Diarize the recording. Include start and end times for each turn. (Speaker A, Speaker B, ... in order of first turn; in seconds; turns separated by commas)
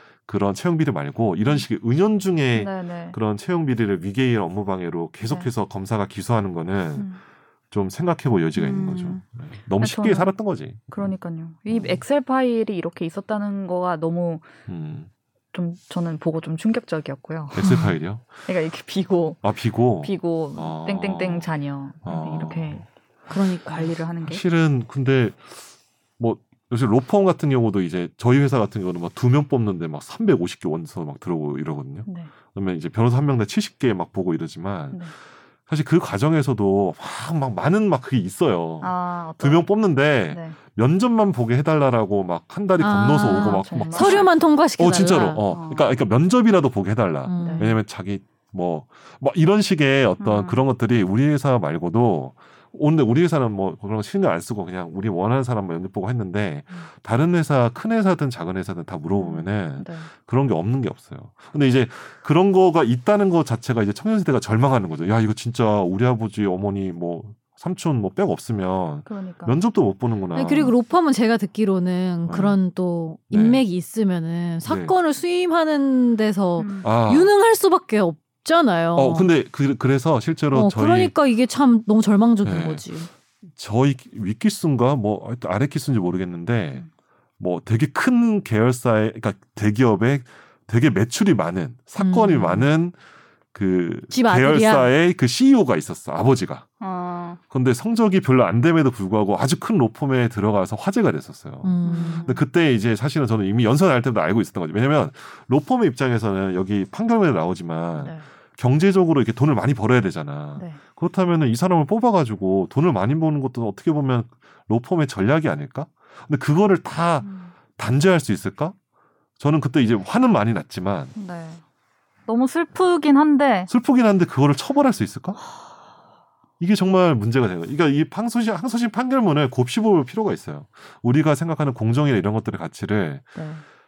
Speaker A: 0.3-7.1, Speaker B: 2.5-3.2, Speaker B: 5.2-5.5, Speaker A: 7.7-11.1, Speaker B: 8.6-9.2, Speaker B: 9.8-10.3, Speaker B: 10.9-14.5, Speaker A: 11.7-12.0, Speaker A: 14.7-15.1, Speaker B: 15.5-17.6, Speaker A: 17.5-18.2, Speaker C: 17.6-17.9, Speaker B: 18.5-22.9, Speaker A: 19.4-21.5, Speaker A: 22.1-22.9, Speaker C: 23.3-23.9, Speaker B: 23.7-24.4, Speaker A: 24.2-25.6, Speaker A: 26.2-35.1, Speaker B: 32.1-32.3, Speaker A: 35.7-70.7, Speaker B: 38.8-40.6, Speaker C: 42.8-45.4, Speaker B: 43.2-44.3, Speaker B: 45.5-45.9, Speaker C: 47.3-47.8, Speaker B: 47.4-47.7, Speaker B: 50.2-50.6, Speaker B: 59.1-60.1, Speaker B: 69.1-69.6, Speaker C: 70.3-79.3, Speaker A: 72.3-72.6, Speaker A: 73.3-73.7, Speaker A: 74.7-75.0, Speaker B: 76.6-76.9, Speaker A: 76.8-77.3, Speaker A: 79.0-81.1, Speaker C: 80.5-83.1, Speaker A: 82.5-82.8, Speaker A: 83.6-86.8, Speaker A: 87.4-93.0, Speaker C: 92.0-92.7, Speaker A: 93.5-96.7, Speaker C: 94.1-94.9, Speaker B: 96.8-97.4, Speaker A: 97.5-118.8, Speaker C: 101.6-102.4, Speaker B: 101.8-102.3, Speaker B: 117.2-117.5, Speaker A: 119.4-121.1, Speaker B: 121.2-121.6, Speaker B: 122.3-123.7, Speaker A: 123.7-125.4, Speaker A: 126.6-133.3, Speaker B: 133.4-133.6